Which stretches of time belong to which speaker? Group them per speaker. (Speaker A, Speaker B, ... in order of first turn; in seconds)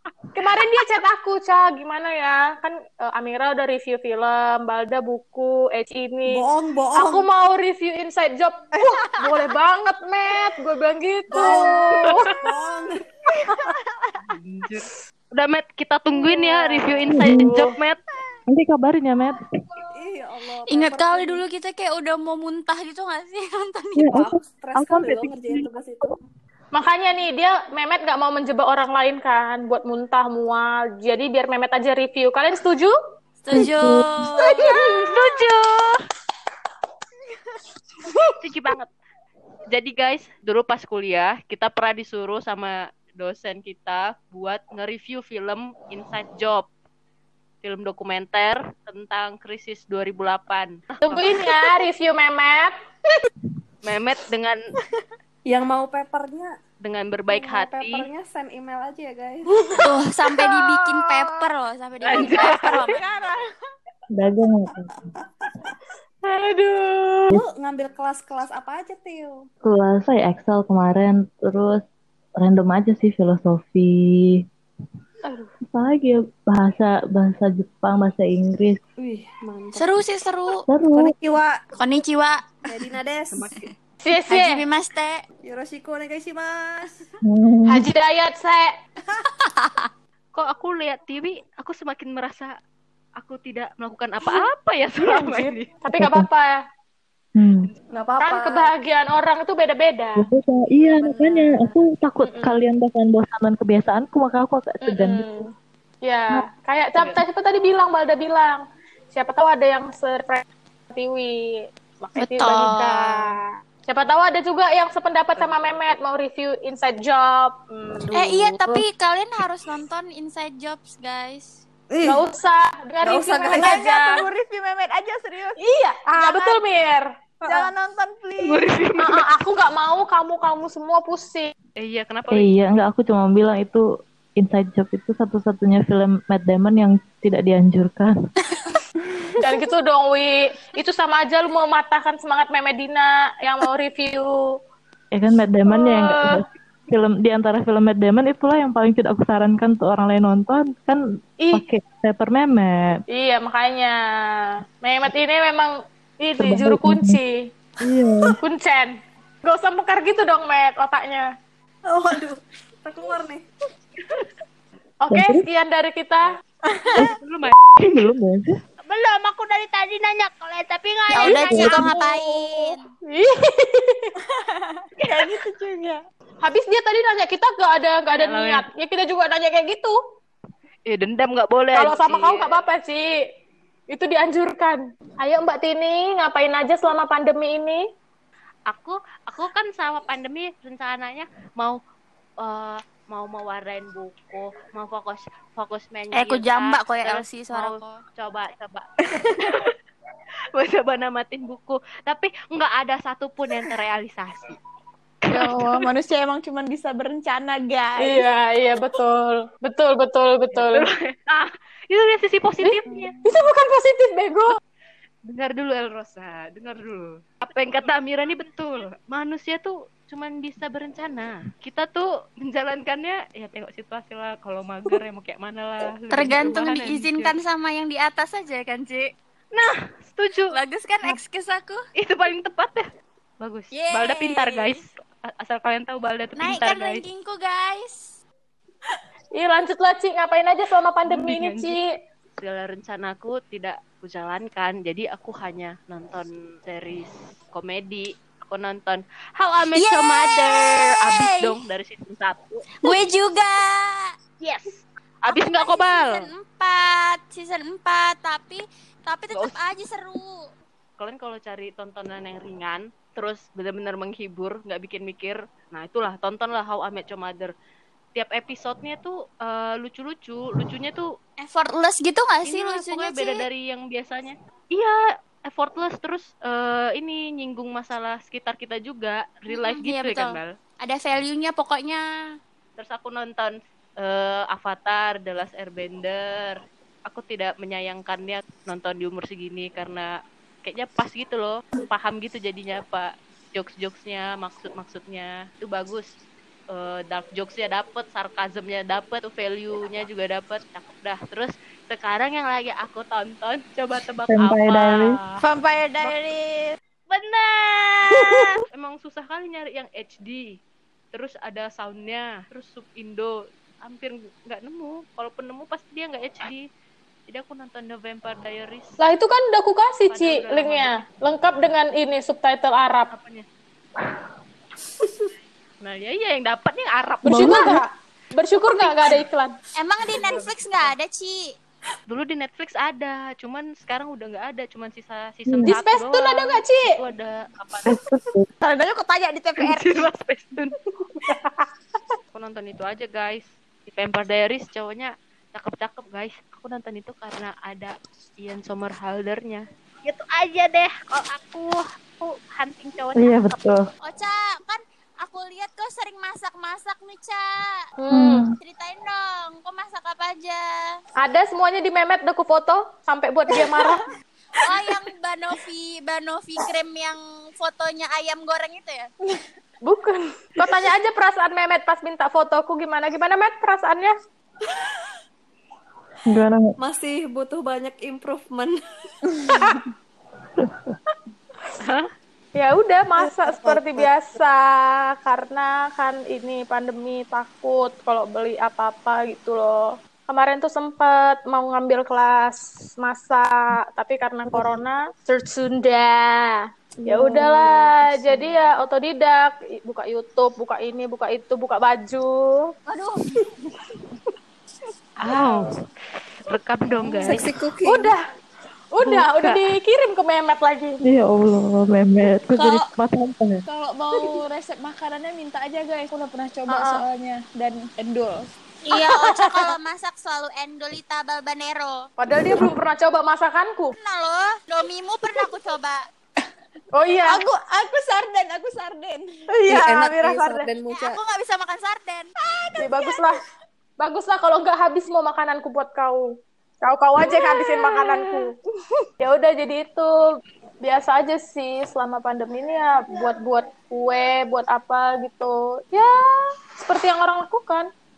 Speaker A: 0.3-12.3, 16.2-17.7, 26.7-33.0, 34.5-35.4, 51.0-52.8, 66.3-67.3, 75.2-75.5, 84.0-84.7, 87.7-88.8, 95.0-96.6, 98.2-100.3, 102.2-102.5, 104.8-105.5, 106.0-117.6, 122.0-124.2, 125.6-127.7, 129.0-131.5, 139.4-144.3, 145.7-146.4, 153.1-157.4, 158.4-161.3, 165.0-166.4, 173.1-174.1, 176.4-180.0, 181.7-183.1, 183.9-187.8, 208.0-210.9, 212.7-214.6, 239.3-241.8, 319.0-323.1, 327.2-329.5, 335.6-336.9, 341.2-341.6, 358.0-358.5, 361.2-364.1, 369.8-374.1, 382.6-402.7, 407.8-408.2, 408.9-411.0, 416.7-417.0, 418.9-419.7, 422.2-423.9, 426.9-427.4, 432.8-433.4, 434.0-436.3, 436.8-438.5, 439.2-440.3, 440.8-447.9
Speaker B: 6.3-7.2, 11.3-11.8, 12.4-12.9, 19.9-21.4, 24.5-26.2, 55.5-56.6, 57.3-59.7, 67.3-69.5, 79.0-79.9, 80.9-81.5, 82.7-83.5, 85.4-87.0, 98.0-98.7, 101.0-101.7, 121.9-122.2, 123.1-123.6, 161.9-163.4, 376.8-378.8, 383.4-384.0, 407.2-408.0, 429.5-431.2
Speaker C: 14.3-18.0, 34.7-36.0, 38.4-38.9, 39.7-46.7, 47.6-51.4, 53.8-54.6, 56.8-58.1, 62.0-63.0, 83.3-83.7, 90.3-92.5, 93.2-95.7, 107.0-107.2, 115.4-115.8, 118.1-118.5, 128.4-129.2, 131.8-132.5, 166.9-168.1, 168.8-172.2, 175.0-175.3, 178.2-178.7, 180.9-182.7, 188.7-191.8, 192.4-199.7, 200.6-204.6, 205.3-205.8, 210.5-213.1, 215.3-227.3, 229.5-230.6, 232.0-232.9, 233.4-237.0, 241.1-241.8, 242.4-252.7, 254.4-256.3, 259.3-259.6, 261.0-267.5, 268.1-271.1, 272.4-280.6, 282.8-290.1, 290.6-296.1, 296.7-305.4, 307.1-310.6, 311.1-316.6, 317.3-319.0, 320.1-321.1, 323.1-323.5, 325.8-327.6, 330.1-330.9, 332.1-338.0, 339.6-340.8, 342.3-353.6, 381.8-382.1, 405.2-405.8, 406.4-407.5, 409.0-409.6
Speaker D: 17.2-17.5, 18.5-19.8, 24.0-26.2, 33.5-34.1, 64.2-64.9, 69.7-71.8, 72.4-74.4, 75.7-78.8, 80.7-81.2, 87.2-87.8, 95.9-96.3, 97.4-97.7, 100.2-105.5, 132.3-133.8, 134.4-138.2, 145.1-151.0, 151.5-153.0, 156.4-157.2, 157.8-158.4, 165.1-165.5, 167.9-168.6, 171.5-171.9, 304.3-305.1, 327.3-327.8, 337.9-338.5, 353.2-353.9, 358.1-358.6, 376.2-376.8, 380.6-381.0, 411.1-413.6
Speaker E: 20.7-24.4, 33.4-34.6, 59.8-63.0, 79.7-80.7, 81.8-82.4, 84.3-85.2, 112.2-113.3, 118.1-121.6, 171.1-172.9, 196.1-198.0, 226.1-229.1, 230.5-231.8, 233.7-234.8, 236.4-238.1, 249.8-251.6, 252.8-254.1, 255.3-260.3, 271.4-273.5, 279.5-282.0, 328.8-329.1, 329.8-331.5, 354.0-357.8, 358.6-361.0, 364.6-369.1, 418.9-422.1, 424.0-426.0, 430.9-432.3
Speaker F: 60.6-61.4, 62.2-63.4, 123.5-125.6, 126.2-126.6, 127.5-128.7, 174.4-176.0, 205.3-208.2, 212.9-213.3, 305.4-306.8, 338.6-340.1, 402.9-403.5, 412.5-412.9, 413.7-418.5, 427.2-430.7, 432.5-433.2, 437.2-438.5